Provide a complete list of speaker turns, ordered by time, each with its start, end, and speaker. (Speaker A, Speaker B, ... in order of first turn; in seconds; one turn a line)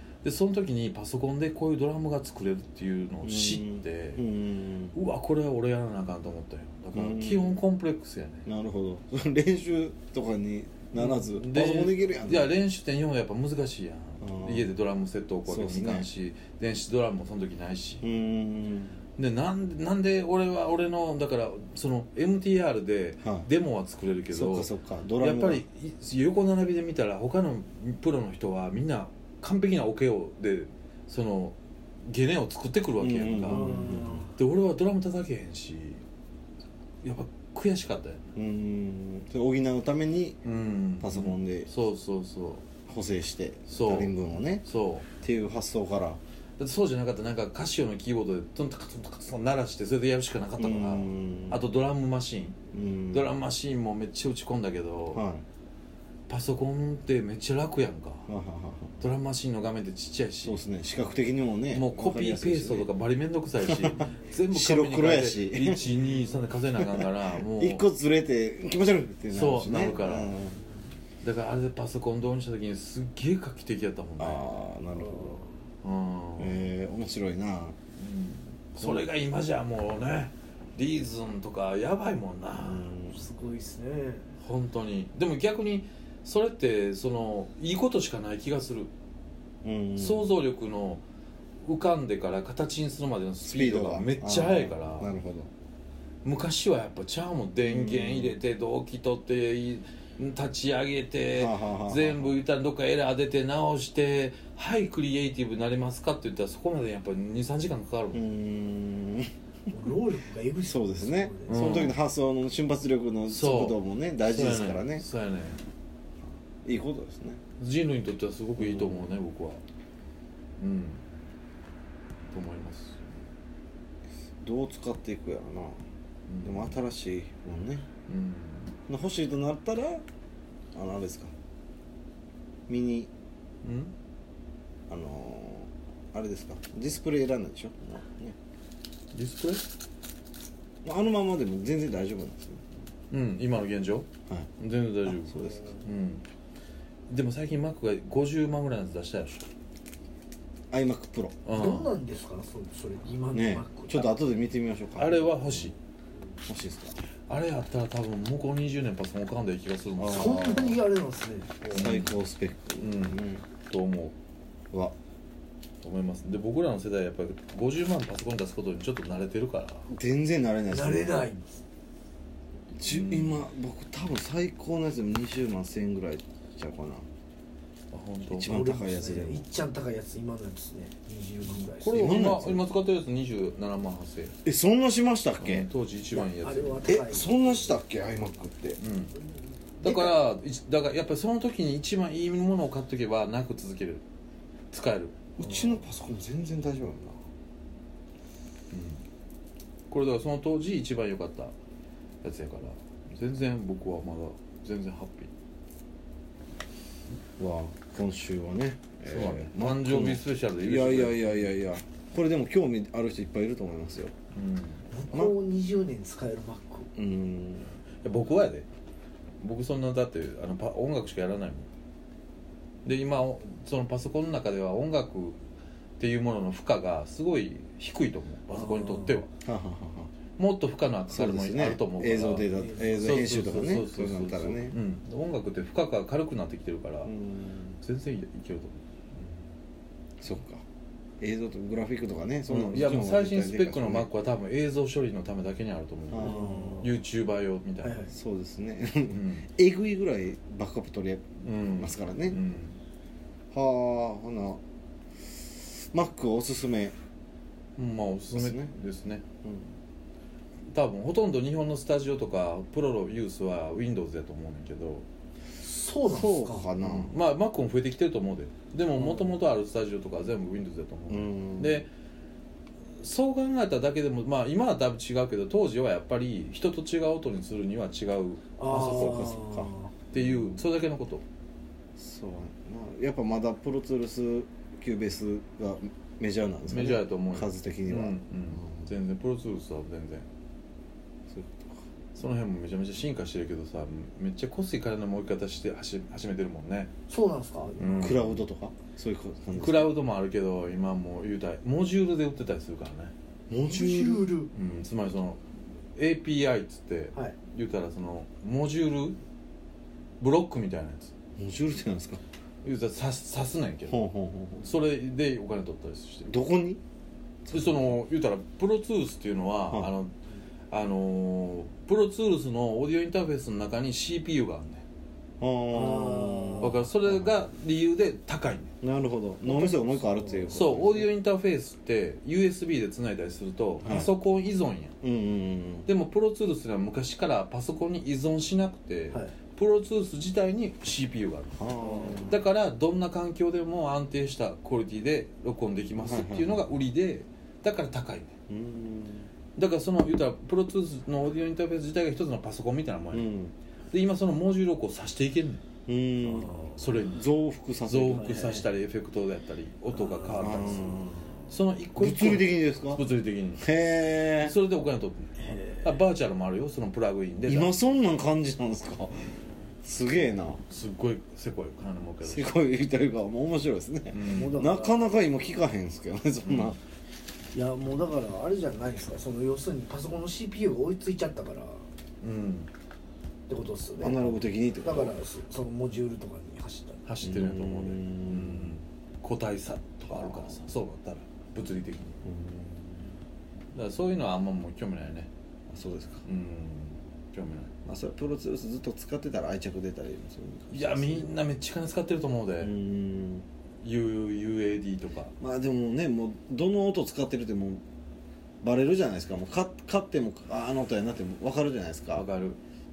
Speaker A: 0.2-4.2
Speaker B: 3.2-5.0
Speaker A: 4.9-8.4
Speaker B: 6.9-7.6
Speaker B: 8.4-12.5
Speaker A: 11.0-18.0
Speaker B: 14.2-14.7
Speaker B: 15.4-16.1
Speaker B: 18.0-19.0
Speaker A: 19.2-24.7
Speaker B: 24.3-25.6
Speaker A: 25.2-33.7
Speaker B: 33.0-34.3
Speaker C: 33.5-34.3
Speaker A: 34.4-36.0
Speaker A: 37.0-38.2
Speaker B: 38.3-40.4
Speaker A: 40.4-42.7
Speaker B: 41.0-41.7
Speaker B: 42.9-44.6
Speaker A: 43.7-44.1
Speaker A: 44.6-45.1
Speaker B: 45.2-46.2
Speaker A: 46.6-52.6
Speaker B: 50.6-51.6
Speaker B: 52.7-53.3
Speaker A: 53.1-55.2
Speaker B: 55.1-55.4
Speaker A: 56.3-58.3
Speaker B: 58.3-59.0
Speaker A: 59.0-60.6
Speaker B: 60.4-62.9
Speaker A: 61.7-67.8
Speaker B: 63.6-65.8
Speaker B: 66.8-70.6
Speaker A: 69.3-70.3
Speaker A: 71.2-74.6
Speaker B: 74.2-75.4
Speaker C: 75.0-75.5
Speaker A: 75.8-76.6
Speaker B: 76.4-77.8
Speaker A: 78.0-82.9
Speaker B: 78.8-79.0
Speaker B: 82.6-83.2
Speaker C: 83.1-84.3
Speaker A: 84.4-88.9
Speaker B: 89.6-90.3
Speaker A: 90.0-91.0
Speaker A: 91.6-95.1
Speaker B: 93.4-95.5
Speaker A: 96.2-108.2
Speaker B: 97.6-98.3
Speaker B: 101.3-102.4
Speaker B: 108.1-109.3
Speaker C: 109.7-111.8
Speaker B: 110.7-115.0
Speaker A: 111.5-112.0
Speaker A: 113.3-115.6
Speaker B: 116.6-117.4
Speaker A: 117.6-119.6
Speaker B: 118.6-119.0
Speaker A: 120.6-121.0
Speaker A: 122.3-123.1
Speaker B: 124.4-125.8
Speaker A: 126.3-126.8
Speaker B: 126.4-127.8
Speaker A: 128.1-128.7
Speaker B: 128.9-130.0
Speaker B: 130.7-131.3
Speaker B: 132.7-133.1
Speaker A: 133.6-133.9
Speaker B: 134.9-138.3
Speaker A: 139.1-139.6
Speaker B: 140.8-142.7
Speaker A: 143.1-144.1
Speaker A: 144.6-146.2
Speaker B: 145.2-145.8
Speaker A: 147.1-149.4
Speaker B: 150.7-151.4
Speaker A: 151.4-151.9
Speaker C: 151.5-154.2
Speaker B: 153.3-155.7
Speaker A: 155.0-155.7
Speaker B: 156.4-157.0
Speaker A: 157.3-160.7
Speaker B: 160.0-160.8
Speaker C: 160.1-161.9
Speaker B: 161.7-163.4
Speaker A: 161.7-162.2
Speaker A: 162.8-164.1
Speaker A: 165.8-169.8
Speaker B: 169.9-171.2
Speaker C: 170.7-171.6
Speaker B: 172.8-177.0
Speaker A: 172.8-173.4
Speaker A: 177.9-178.5
Speaker B: 178.3-179.5
Speaker C: 178.4-182.2
Speaker A: 181.6-184.3
Speaker B: 181.9-182.6
Speaker B: 184.4-185.7
Speaker A: 185.4-186.9
Speaker C: 186.2-187.6
Speaker B: 186.9-188.8
Speaker A: 188.8-189.1
Speaker A: 189.8-194.0
Speaker B: 189.8-190.2
Speaker A: 194.7-195.3
Speaker B: 195.4-197.2
Speaker C: 195.4-195.8
Speaker A: 198.7-199.0
Speaker A: 199.9-201.5
Speaker A: 202.2-205.3
Speaker B: 207.4-214.1
Speaker A: 209.1-211.5
Speaker A: 214.3-214.8
Speaker C: 214.9-216.9
Speaker B: 216.9-217.7
Speaker A: 218.0-218.7
Speaker A: 219.4-221.7
Speaker A: 222.8-225.4
Speaker A: 226.0-229.3
Speaker C: 228.5-229.2
Speaker B: 229.4-230.1
Speaker A: 230.4-237.1
Speaker B: 231.1-234.8
Speaker C: 232.5-233.2
Speaker B: 237.0-237.8
Speaker A: 237.8-239.3
Speaker B: 240.2-240.6
Speaker B: 241.2-244.1
Speaker A: 242.5-248.0
Speaker B: 246.1-246.9
Speaker C: 246.2-246.9
Speaker C: 247.8-248.1
Speaker B: 248.1-252.4
Speaker A: 249.1-249.4
Speaker A: 251.4-252.8
Speaker B: 253.5-254.6
Speaker B: 255.5-256.9
Speaker A: 257.8-259.2
Speaker B: 258.3-258.7
Speaker A: 260.7-265.1
Speaker C: 265.6-266.7
Speaker B: 266.0-267.2
Speaker A: 266.8-271.9
Speaker C: 269.0-269.3
Speaker B: 271.1-271.8
Speaker A: 273.0-279.4
Speaker C: 278.6-279.9
Speaker B: 278.7-280.6
Speaker A: 280.1-281.2
Speaker B: 281.9-288.9
Speaker A: 286.7-290.3
Speaker B: 291.3-291.8
Speaker A: 292.1-296.9
Speaker C: 297.1-298.1
Speaker A: 297.8-298.4
Speaker B: 297.9-299.9
Speaker A: 299.5-303.1
Speaker B: 303.5-304.3
Speaker C: 303.6-304.5
Speaker A: 304.5-305.4
Speaker A: 305.9-309.2
Speaker A: 310.2-311.1
Speaker B: 311.4-312.2
Speaker A: 312.6-314.0
Speaker B: 313.9-314.7
Speaker A: 314.6-316.3
Speaker B: 316.3-316.8
Speaker B: 317.5-317.9
Speaker A: 317.5-320.1
Speaker A: 320.7-324.8
Speaker B: 325.4-327.2
Speaker C: 325.7-326.8
Speaker A: 326.6-328.7
Speaker B: 328.8-331.1
Speaker C: 329.4-330.7
Speaker A: 330.5-334.9
Speaker B: 333.8-334.1
Speaker B: 335.0-335.9
Speaker A: 335.9-341.6
Speaker B: 341.5-342.4
Speaker C: 341.8-342.3
Speaker A: 342.3-348.3
Speaker B: 346.0-346.6
Speaker B: 348.5-349.3
Speaker A: 349.6-353.3
Speaker B: 353.1-353.5
Speaker A: 353.9-355.6
Speaker B: 355.9-356.5
Speaker C: 356.2-356.8
Speaker A: 356.8-357.3
Speaker B: 357.0-358.4
Speaker A: 357.9-363.6
Speaker C: 358.1-358.7
Speaker C: 359.9-361.4
Speaker B: 360.4-361.1
Speaker B: 361.9-363.0
Speaker B: 363.6-364.6
Speaker A: 364.4-367.7
Speaker C: 365.4-365.9
Speaker B: 367.5-369.3
Speaker B: 369.8-370.6
Speaker A: 370.7-372.6
Speaker B: 372.2-376.8
Speaker A: 374.1-374.6
Speaker C: 374.2-375.1
Speaker A: 376.4-376.7
Speaker C: 377.5-381.9
Speaker A: 382.2-382.7
Speaker C: 383.5-387.1
Speaker B: 384.0-385.1
Speaker A: 387.1-392.2
Speaker B: 387.2-388.8
Speaker B: 390.1-390.6
Speaker B: 392.2-393.0
Speaker A: 393.7-395.3
Speaker B: 395.7-396.2
Speaker A: 396.2-397.7
Speaker B: 397.8-401.3
Speaker A: 400.7-402.7
Speaker B: 402.6-403.4
Speaker A: 403.8-405.3
Speaker B: 405.4-407.8
Speaker B: 408.6-412.2
Speaker A: 412.1-412.6